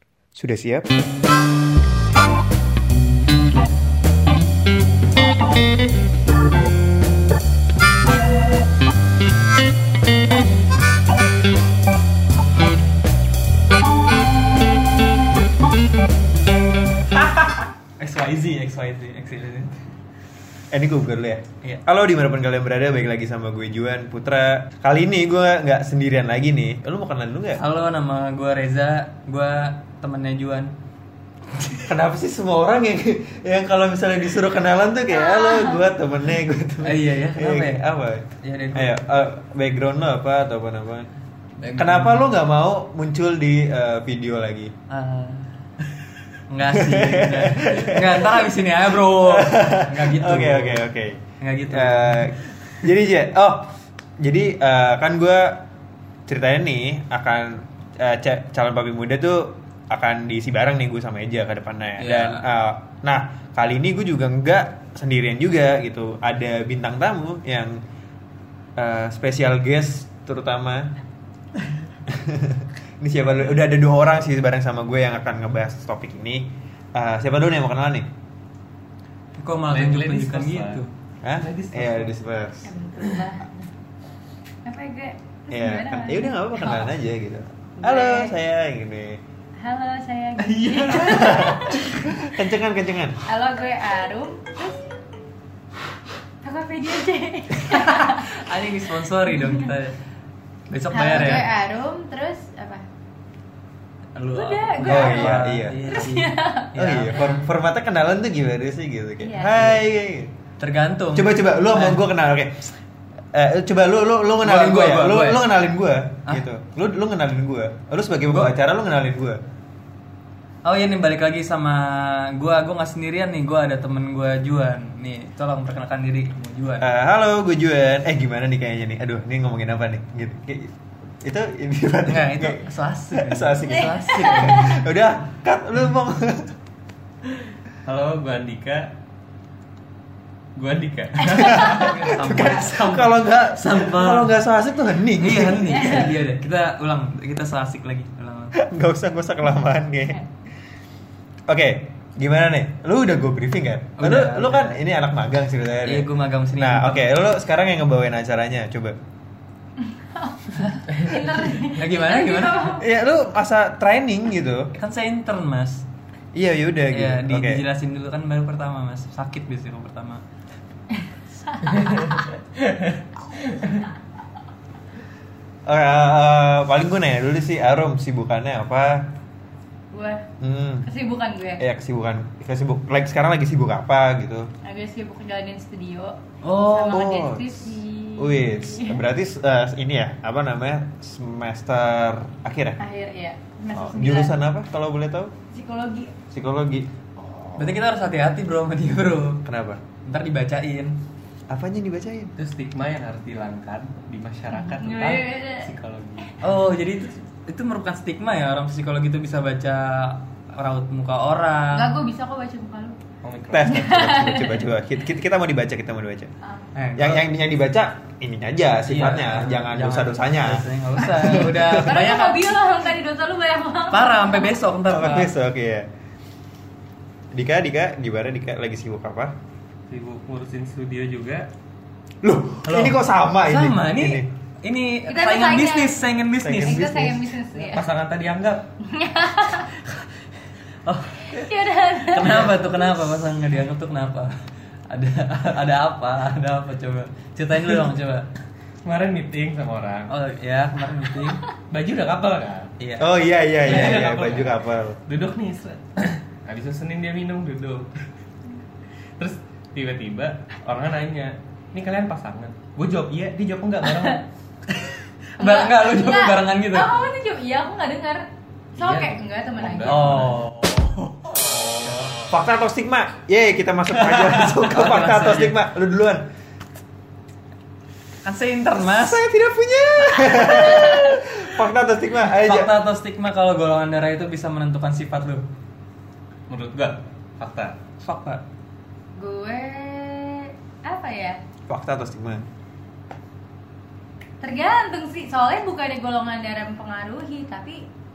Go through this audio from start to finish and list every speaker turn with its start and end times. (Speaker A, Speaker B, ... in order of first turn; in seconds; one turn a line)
Speaker A: 0.3-0.9
Speaker B: 17.6-19.8
Speaker A: 20.7-27.6
Speaker B: 27.6-30.7
Speaker A: 31.9-41.1
Speaker C: 35.1-35.9
Speaker B: 36.8-37.8
Speaker B: 38.4-39.0
Speaker B: 41.6-42.2
Speaker A: 41.8-44.7
Speaker B: 44.9-45.5
Speaker B: 46.5-50.8
Speaker A: 46.7-55.6
Speaker B: 51.4-52.4
Speaker A: 56.3-67.8
Speaker D: 62.0-62.4
Speaker A: 68.8-70.9
Speaker A: 72.1-78.1
Speaker B: 79.4-80.9
Speaker D: 79.7-80.8
Speaker A: 81.2-82.7
Speaker D: 81.4-82.2
Speaker C: 82.6-83.7
Speaker C: 84.7-86.9
Speaker A: 85.5-89.2
Speaker C: 87.8-88.3
Speaker C: 89.6-92.0
Speaker B: 90.5-91.2
Speaker A: 91.0-93.2
Speaker C: 93.2-94.8
Speaker C: 96.4-98.3
Speaker B: 97.7-100.0
Speaker C: 99.3-99.7
Speaker B: 100.7-101.5
Speaker C: 100.9-102.8
Speaker B: 104.2-107.2
Speaker C: 104.3-107.5
Speaker A: 104.8-106.1
Speaker A: 106.8-110.3
Speaker C: 109.2-109.8
Speaker B: 110.6-112.0
Speaker A: 111.1-112.7
Speaker A: 113.3-119.4
Speaker B: 114.4-115.5
Speaker B: 120.7-126.9
Speaker A: 126.8-136.5
Speaker B: 132.1-134.7
Speaker C: 133.7-134.8
Speaker D: 137.8-138.9
Speaker D: 140.6-142.6
Speaker A: 141.3-146.1
Speaker C: 141.4-141.9
Speaker B: 141.5-144.3
Speaker B: 145.2-148.6
Speaker C: 145.8-146.1
Speaker A: 148.5-150.2
Speaker A: 151.5-159.0
Speaker B: 154.0-154.8
Speaker B: 155.8-157.2
Speaker C: 159.8-162.8
Speaker B: 161.6-162.8
Speaker A: 162.8-164.7
Speaker B: 164.8-165.9
Speaker A: 166.3-167.6
Speaker B: 166.9-170.2
Speaker C: 171.5-172.2
Speaker D: 172.6-172.9
Speaker A: 175.7-179.1
Speaker C: 179.9-180.2
Speaker A: 180.4-180.9
Speaker C: 180.8-181.6
Speaker A: 181.6-184.5
Speaker C: 184.6-189.0
Speaker A: 186.4-192.8
Speaker C: 192.8-194.4
Speaker A: 193.7-195.3
Speaker C: 195.5-196.1
Speaker A: 196.3-197.8
Speaker B: 197.6-199.4
Speaker A: 199.4-199.8
Speaker B: 200.1-200.9
Speaker A: 201.5-202.3
Speaker D: 202.4-206.3
Speaker C: 204.5-205.7
Speaker B: 206.4-211.9
Speaker C: 211.7-213.0
Speaker D: 213.2-213.8
Speaker A: 213.5-216.3
Speaker C: 213.7-214.7
Speaker B: 216.8-217.3
Speaker A: 217.0-222.1
Speaker B: 218.9-222.6
Speaker C: 221.0-224.6
Speaker B: 223.9-225.3
Speaker A: 224.9-225.9
Speaker A: 227.3-229.3
Speaker D: 229.9-231.5
Speaker A: 232.2-234.3
Speaker B: 232.7-236.9
Speaker C: 235.1-236.1
Speaker A: 236.4-237.2
Speaker C: 236.6-237.9
Speaker D: 237.5-238.6
Speaker C: 238.8-239.7
Speaker B: 240.9-241.4
Speaker C: 241.3-242.9
Speaker B: 242.0-244.3
Speaker B: 244.9-248.3
Speaker D: 248.8-250.1
Speaker B: 250.1-251.4
Speaker D: 251.7-252.7
Speaker B: 252.8-253.1
Speaker A: 253.0-255.0
Speaker D: 253.6-257.9
Speaker B: 253.7-254.0
Speaker D: 259.2-264.2
Speaker B: 264.8-266.9
Speaker C: 265.4-270.3
Speaker D: 268.8-270.4
Speaker B: 269.9-271.3
Speaker A: 272.3-276.2
Speaker B: 274.0-275.6
Speaker B: 278.2-279.2
Speaker A: 278.8-282.7
Speaker B: 280.3-280.6
Speaker C: 280.5-280.9
Speaker B: 282.3-285.4
Speaker D: 286.5-287.8
Speaker B: 288.1-288.4
Speaker C: 289.1-291.4
Speaker A: 291.7-292.5
Speaker C: 294.4-297.9